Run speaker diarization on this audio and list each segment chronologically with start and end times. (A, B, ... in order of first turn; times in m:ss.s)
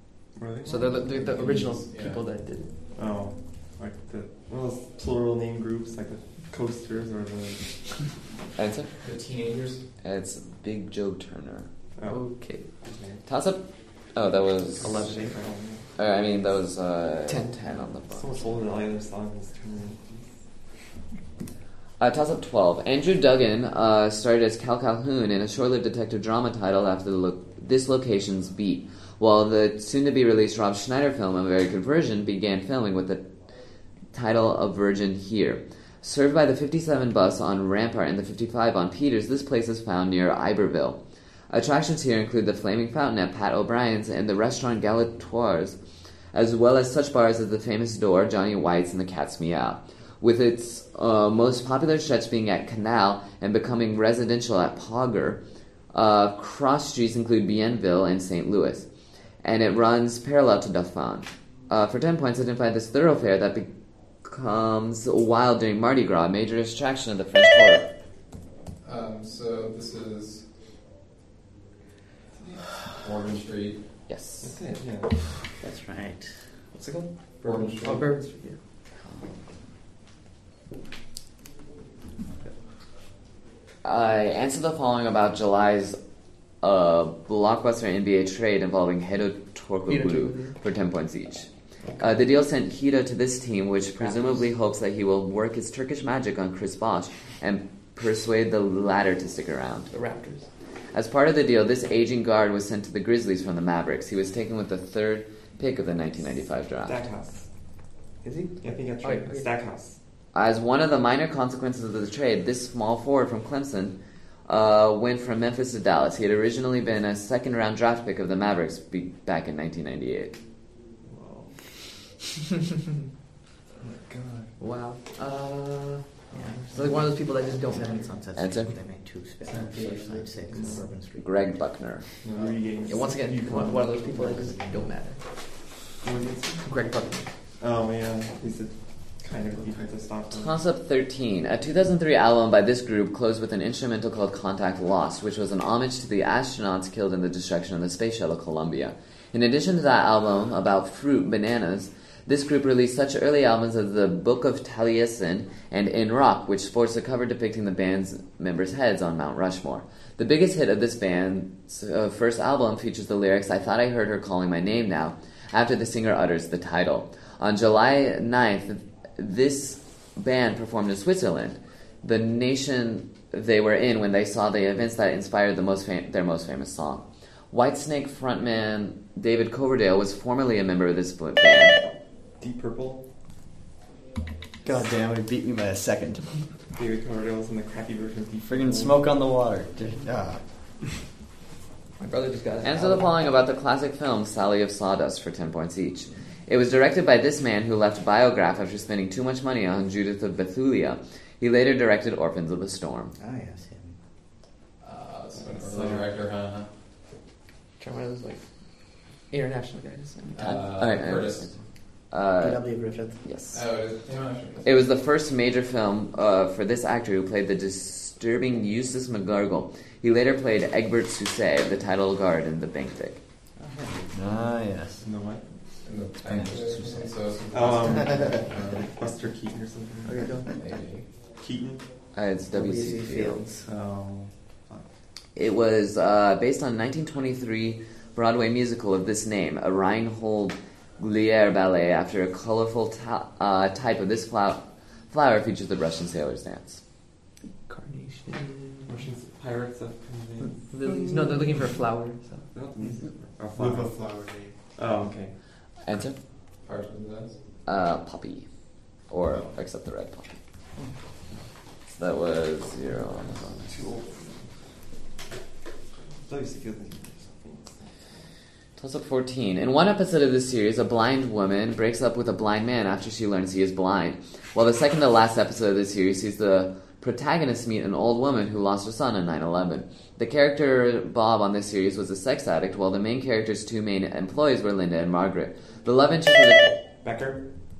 0:00.3-0:01.5 A
0:00.6-0:02.7 B
0:01.4-0:02.2 C
0:02.9-0:08.0 A
0:08.6-0:08.9 D
0:09.0-0:09.8 C
0:10.0-0:11.7 D
0:12.0-0:12.2 A
0:12.0-0:12.7 B
0:12.8-0:13.2 A
0:13.2-0:14.9 D
0:14.8-0:15.8 A
0:14.8-0:15.5 B
0:16.0-0:18.2 D
0:17.3-0:18.5 B
0:18.1-0:20.2 A
0:22.0-0:33.3 D
0:34.1-0:45.8 D
0:46.3-0:58.9 D
0:59.4-1:03.7 D
1:04.2-1:07.9 D
1:08.8-1:10.4 C
1:12.4-1:12.6 A
1:12.9-1:13.8 C
1:14.1-1:14.5 D
1:14.4-1:15.1 A
1:15.6-1:16.3 E
1:16.8-1:18.0 A
1:17.4-1:18.0 C
1:17.8-1:18.6 B
1:22.2-1:22.5 E
1:23.8-1:26.0 D
1:26.6-1:31.5 D
1:29.9-1:30.6 B
1:32.0-1:39.9 D
1:34.0-1:34.4 B
1:39.9-1:40.5 B
1:40.9-1:47.0 D
1:46.8-1:47.4 A
1:48.2-1:49.5 B
1:48.6-1:50.0 A
1:50.3-2:00.4 D
2:01.0-2:01.6 A
2:03.8-2:04.5 A
2:04.6-2:08.1 B
2:06.3-2:11.6 E
2:08.3-2:08.7 D
2:09.5-2:10.6 C
2:10.5-2:10.8 A
2:11.2-2:12.0 D
2:12.2-2:13.8 A
2:12.8-2:15.2 B
2:13.9-2:14.9 E
2:16.0-2:16.6 A
2:16.6-2:17.3 B
2:17.6-2:20.6 A
2:20.3-3:01.8 D
3:02.4-3:03.0 A
3:04.6-3:06.3 F
3:06.7-3:09.0 A
3:08.4-3:10.4 F
3:12.0-3:13.2 B
3:12.6-3:23.1 D
3:23.2-3:24.0 E
3:24.8-3:26.7 C
3:25.5-3:26.1 A
3:27.8-3:28.4 B
3:29.3-3:30.6 B
3:30.3-3:31.5 C
3:30.4-3:31.5 D
3:32.1-3:32.6 D
3:32.4-3:33.2 E
3:33.2-3:33.6 D
3:33.5-3:34.8 C
3:34.6-3:43.2 D
3:43.6-3:44.4 E
3:44.1-3:45.0 F
3:45.0-3:45.5 A
3:45.8-3:48.9 C
3:46.2-3:47.1 F
3:47.5-3:50.3 A
3:50.0-3:50.6 B
3:50.5-3:51.0 C
3:51.4-3:51.8 A
3:52.1-3:53.4 D
3:52.5-3:53.7 E
3:53.6-3:54.8 A
3:55.4-4:06.8 D
4:07.6-4:09.1 B
4:08.9-4:11.1 A
4:10.4-4:12.8 B
4:12.5-4:14.2 A
4:14.7-4:15.3 A
4:15.8-4:16.2 D
4:16.6-4:17.4 C
4:17.6-4:18.5 D
4:19.1-4:20.4 D
4:22.0-4:23.8 D
4:23.6-4:24.4 A
4:26.3-4:27.7 A
4:28.8-4:46.7 D
4:47.0-4:47.4 A